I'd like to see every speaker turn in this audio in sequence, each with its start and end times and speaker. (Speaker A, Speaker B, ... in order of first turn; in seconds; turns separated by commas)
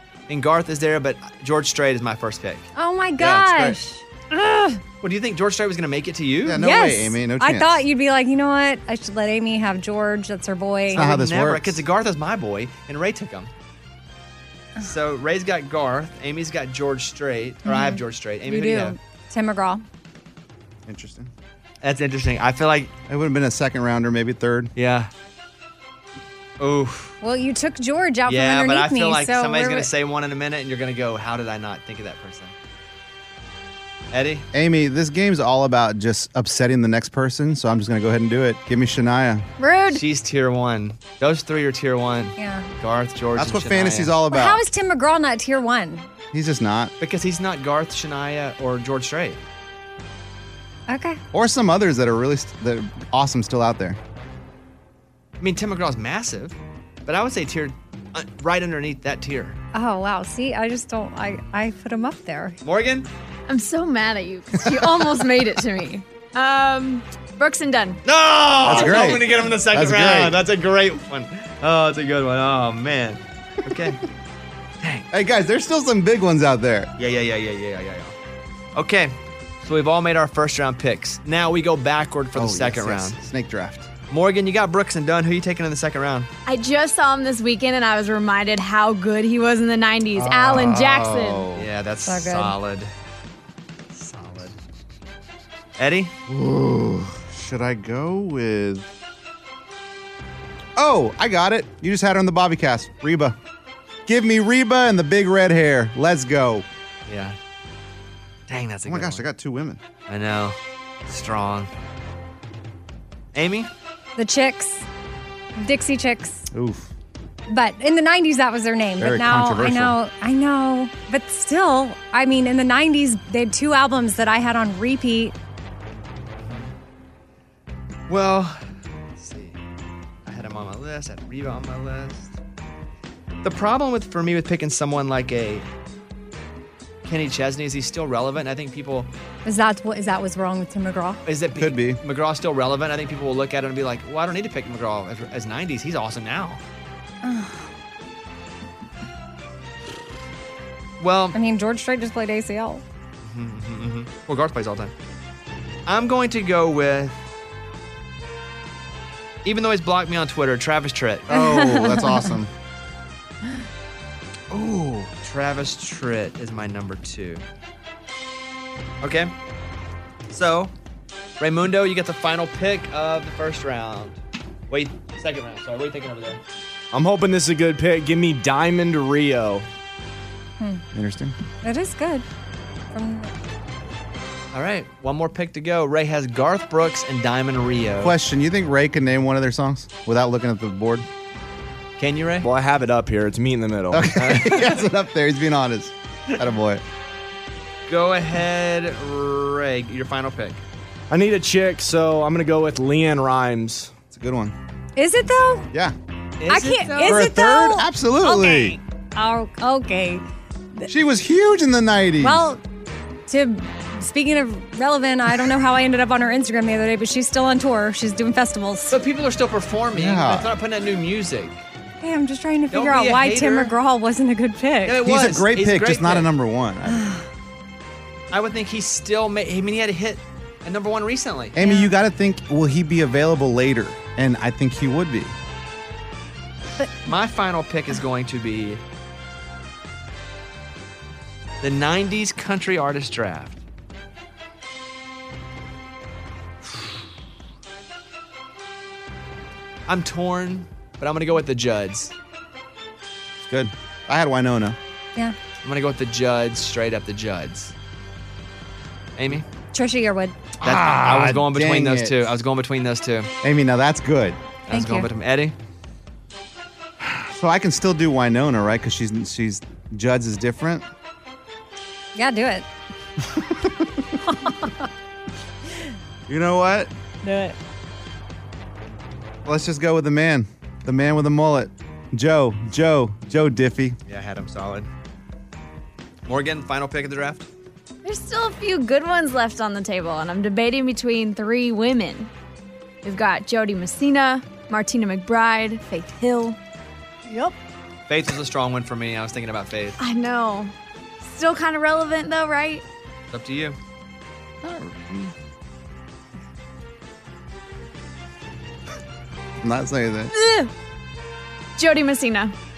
Speaker A: 0.3-2.7, Speaker B: 2.7-4.8, Speaker C: 3.2-3.8, Speaker A: 5.0-6.6, Speaker C: 6.4-7.8, Speaker B: 6.6-11.0, Speaker A: 10.9-13.5, Speaker C: 10.9-11.8, Speaker A: 14.8-18.9, Speaker B: 17.6-19.8, Speaker C: 20.9-21.3, Speaker A: 21.8-22.9, Speaker C: 23.1-24.7, Speaker A: 24.8-25.1, Speaker A: 26.6-27.1, Speaker B: 27.2-29.9, Speaker A: 28.3-32.5, Speaker A: 34.1-34.5, Speaker C: 34.5-39.5, Speaker D: 39.6-40.0, Speaker A: 39.9-44.1, Speaker B: 42.4-42.7, Speaker C: 43.4-44.6, Speaker B: 44.3-46.1, Speaker C: 46.3-46.9, Speaker A: 47.0-49.4, Speaker B: 50.9-51.2, Speaker C: 51.3-54.0, Speaker A: 55.4-59.6, Speaker B: 59.7-62.6, Speaker A: 62.6-63.1, Speaker D: 63.5-68.0, Speaker A: 68.0-74.0, Speaker C: 68.6-70.4, Speaker A: 74.8-75.1, Speaker C: 75.1-76.9, Speaker A: 77.0-78.1, Speaker A: 78.8-83.2, Speaker C: 82.3-83.9, Speaker A: 84.1-86.3, Speaker D: 86.5-91.5, Speaker C: 90.1-91.7, Speaker A: 91.5-92.9, Speaker B: 92.1-92.5, Speaker A: 93.9-94.5, Speaker A: 95.8-96.1, Speaker C: 96.3-98.9, Speaker C: 100.8-103.4, Speaker C: 104.0-106.7, Speaker A: 107.1-107.3, Speaker A: 108.5-109.2, Speaker C: 108.8-109.8, Speaker A: 110.1-111.7, Speaker A: 113.3-113.7, Speaker B: 114.2-114.8, Speaker B: 115.6-116.5, Speaker C: 116.5-116.9, Speaker B: 117.5-125.3, Speaker C: 119.0-120.0, Speaker A: 126.4-126.7, Speaker A: 128.1-128.6, Speaker A: 129.2-129.6, Speaker A: 130.2-132.3, Speaker A: 133.4-135.7, Speaker A: 137.0-139.1, Speaker B: 139.4-141.2, Speaker A: 141.2-146.6, Speaker C: 141.6-142.0, Speaker B: 147.2-147.7, Speaker A: 151.0-151.3, Speaker B: 151.3-152.8, Speaker A: 153.2-154.9, Speaker A: 155.8-157.2, Speaker A: 159.4-161.3, Speaker C: 161.3-162.5, Speaker B: 161.3-162.3, Speaker A: 164.5-167.4, Speaker A: 169.0-169.3, Speaker A: 170.3-170.7, Speaker A: 171.4-174.2, Speaker A: 174.7-176.4, Speaker E: 176.9-179.7, Speaker C: 180.9-181.3, Speaker B: 181.6-182.2, Speaker B: 182.9-183.3, Speaker A: 184.5-188.1, Speaker C: 188.0-191.1, Speaker A: 192.0-192.4, Speaker E: 192.4-194.1, Speaker C: 193.9-196.8, Speaker A: 194.2-194.8, Speaker A: 197.9-200.6, Speaker E: 201.1-203.9, Speaker C: 204.1-204.5, Speaker B: 205.0-205.7, Speaker A: 206.4-207.2, Speaker B: 206.5-210.2, Speaker C: 207.0-208.8, Speaker C: 210.9-212.5, Speaker B: 212.2-212.6, Speaker B: 213.3-219.0, Speaker A: 218.9-221.6, Speaker C: 219.9-220.5, Speaker B: 222.0-225.0, Speaker A: 222.7-223.7, Speaker A: 224.8-226.3, Speaker C: 225.0-227.2, Speaker B: 226.9-227.2, Speaker A: 228.3-231.6, Speaker C: 231.5-235.3, Speaker B: 231.6-231.9, Speaker A: 237.1-238.8, Speaker A: 241.6-243.6, Speaker A: 249.9-252.1, Speaker C: 253.4-254.8, Speaker A: 255.6-257.7, Speaker A: 259.2-259.4, Speaker B: 259.7-260.4, Speaker C: 260.6-262.4, Speaker A: 260.6-263.3, Speaker C: 263.4-264.4, Speaker A: 264.7-265.5, Speaker B: 264.7-265.1, Speaker C: 267.0-270.9, Speaker B: 272.1-272.6, Speaker C: 273.3-274.0, Speaker B: 274.3-274.9, Speaker C: 276.3-276.9, Speaker B: 277.2-277.6, Speaker C: 279.4-283.9, Speaker A: 284.1-284.9, Speaker A: 286.2-287.5, Speaker D: 288.0-292.3, Speaker D: 293.0-296.6, Speaker D: 297.3-297.5, Speaker A: 298.1-300.0, Speaker D: 300.0-302.8, Speaker A: 303.3-303.8, Speaker C: 304.6-305.3, Speaker C: 309.6-310.3, Speaker D: 310.3-310.7, Speaker D: 311.8-312.5